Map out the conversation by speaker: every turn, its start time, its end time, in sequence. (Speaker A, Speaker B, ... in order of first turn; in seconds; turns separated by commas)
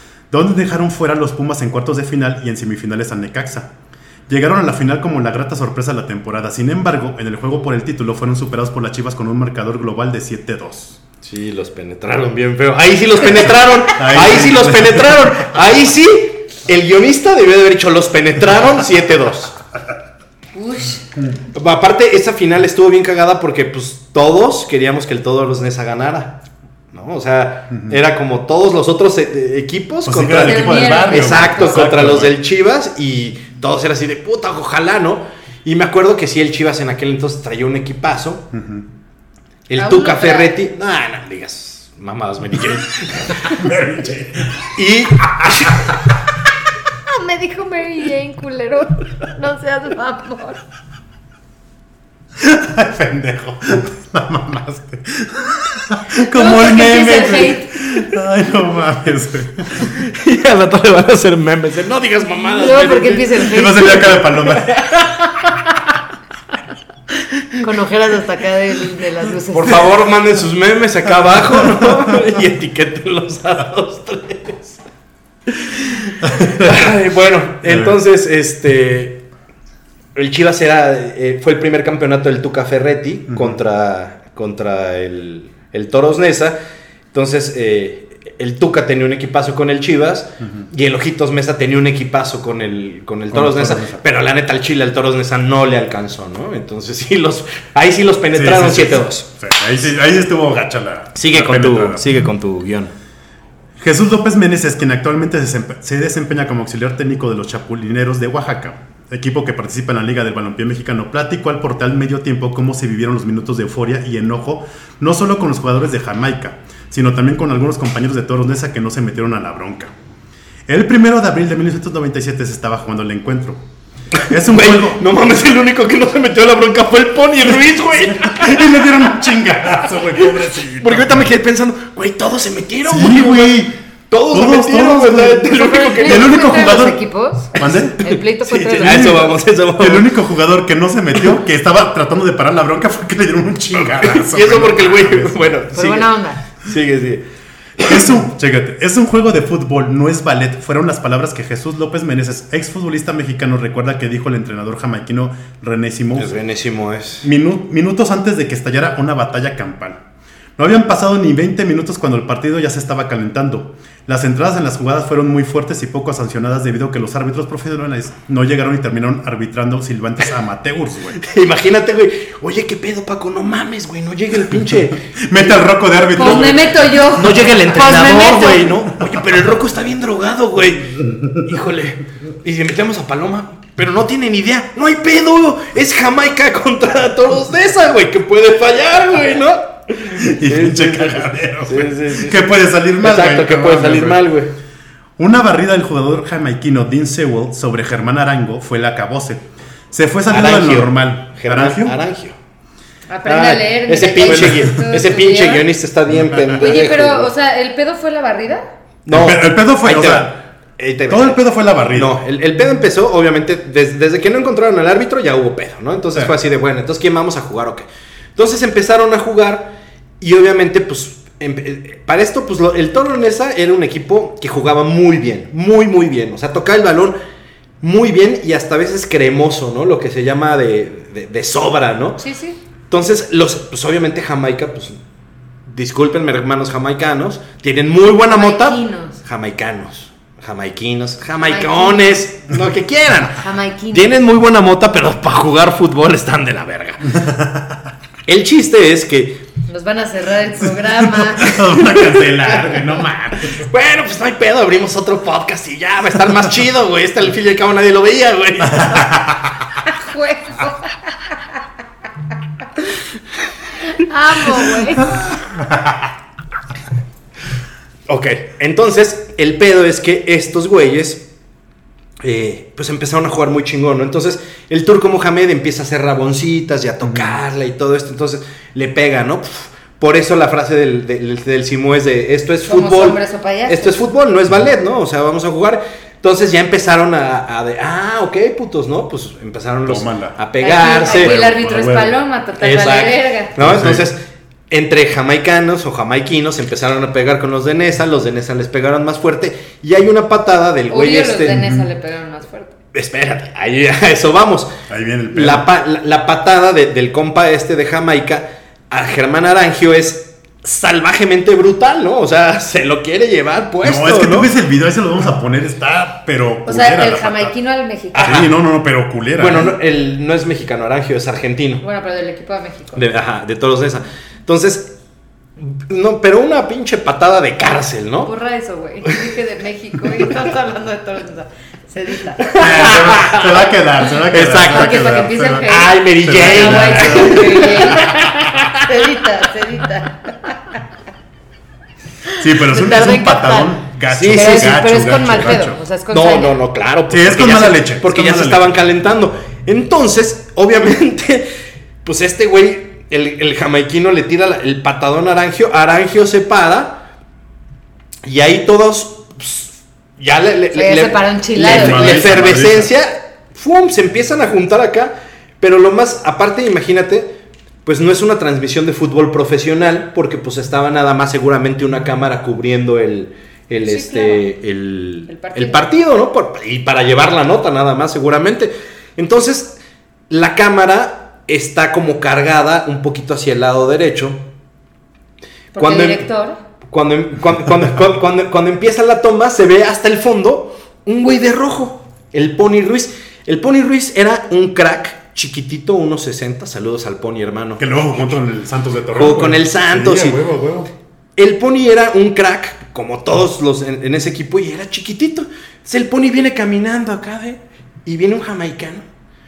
Speaker A: 0.3-3.7, Speaker A: 4.3-11.0, Speaker B: 11.2-19.5, Speaker A: 13.9-15.3, Speaker C: 20.5-21.1, Speaker B: 21.5-26.4, Speaker B: 26.9-38.5, Speaker A: 27.7-28.0, Speaker A: 30.1-32.4, Speaker C: 30.4-31.9, Speaker A: 38.5-38.9, Speaker B: 39.7-43.6, Speaker C: 39.8-40.6, Speaker A: 43.4-44.7, Speaker B: 44.7-46.0, Speaker C: 47.1-50.6, Speaker A: 52.4-60.0, Speaker C: 56.3-57.8, Speaker B: 59.9-63.5, Speaker C: 62.4-64.2, Speaker A: 63.4-64.7, Speaker B: 64.5-65.6, Speaker C: 67.6-69.9, Speaker B: 69.5-74.8, Speaker A: 71.5-71.9, Speaker B: 75.5-79.2, Speaker A: 76.2-76.9, Speaker A: 77.6-78.0, Speaker B: 80.1-86.5, Speaker A: 83.3-83.6, Speaker B: 87.1-99.3, Speaker A: 90.4-90.7, Speaker A: 93.3-94.0, Speaker A: 98.3-102.0, Speaker B: 101.2-102.9, Speaker A: 103.8-119.9, Speaker A: 120.7-123.6, Speaker B: 124.2-128.9, Speaker A: 124.3-125.0, Speaker A: 128.1-131.3, Speaker B: 130.8-136.5, Speaker A: 132.9-133.7, Speaker A: 134.3-137.0, Speaker C: 135.5-139.3, Speaker A: 137.6-145.5, Speaker B: 138.6-140.1, Speaker B: 143.7-147.2, Speaker C: 145.7-146.4, Speaker B: 147.8-148.1, Speaker A: 147.8-156.3, Speaker B: 156.2-157.3, Speaker A: 157.2-160.0, Speaker A: 160.6-171.2, Speaker B: 171.2-175.1, Speaker A: 174.5-176.8, Speaker C: 176.2-178.7, Speaker B: 176.2-176.6, Speaker B: 177.1-194.5, Speaker A: 190.2-194.2, Speaker A: 195.2-202.0, Speaker B: 200.3-202.4, Speaker C: 203.1-205.7, Speaker B: 203.2-207.3, Speaker A: 204.2-204.7, Speaker A: 206.1-206.6, Speaker C: 206.6-208.6, Speaker B: 209.1-211.4, Speaker A: 209.1-210.3, Speaker A: 211.1-212.2, Speaker B: 211.9-227.2, Speaker B: 227.8-232.2, Speaker C: 232.2-232.6, Speaker B: 232.9-235.0, Speaker B: 235.7-247.2, Speaker C: 238.2-239.2, Speaker C: 241.4-242.2, Speaker C: 243.2-244.2, Speaker A: 247.1-247.8, Speaker B: 248.3-249.4, Speaker C: 249.7-251.7, Speaker A: 250.9-253.6, Speaker B: 251.7-259.2, Speaker A: 258.7-259.5, Speaker C: 259.9-261.3, Speaker C: 263.9-265.2, Speaker A: 265.1-266.1, Speaker B: 268.1-271.2, Speaker B: 272.2-291.4, Speaker A: 277.0-277.4, Speaker C: 282.6-284.1, Speaker A: 289.8-290.4, Speaker C: 290.6-293.5, Speaker A: 291.0-292.2, Speaker B: 292.6-301.6, Speaker A: 293.6-294.1, Speaker C: 300.9-302.7, Speaker A: 301.5-301.9, Speaker B: 302.9-304.7, Speaker A: 304.9-305.7, Speaker B: 305.3-314.5, Speaker A: 313.8-317.5, Speaker C: 316.6-318.4, Speaker B: 318.1-318.5, Speaker A: 318.2-319.7, Speaker B: 319.4-321.8, Speaker C: 321.8-323.0, Speaker B: 322.9-324.9, Speaker B: 325.6-328.3, Speaker C: 328.2-332.6, Speaker B: 332.4-333.7, Speaker A: 332.6-337.7, Speaker B: 334.3-335.1, Speaker C: 334.6-340.8, Speaker B: 335.6-338.9, Speaker C: 342.3-343.8, Speaker A: 342.4-345.8, Speaker B: 344.1-344.7, Speaker C: 344.3-346.5, Speaker B: 346.1-351.5, Speaker A: 347.1-348.8, Speaker B: 352.0-357.0, Speaker B: 358.2-367.3, Speaker C: 360.7-362.3, Speaker A: 361.6-362.9, Speaker B: 367.8-379.8, Speaker C: 373.8-374.5, Speaker C: 375.3-375.9, Speaker B: 380.3-384.4, Speaker C: 385.7-386.6, Speaker B: 385.8-386.2, Speaker B: 386.9-397.8, Speaker A: 397.8-400.9, Speaker B: 399.1-400.4, Speaker B: 401.4-409.1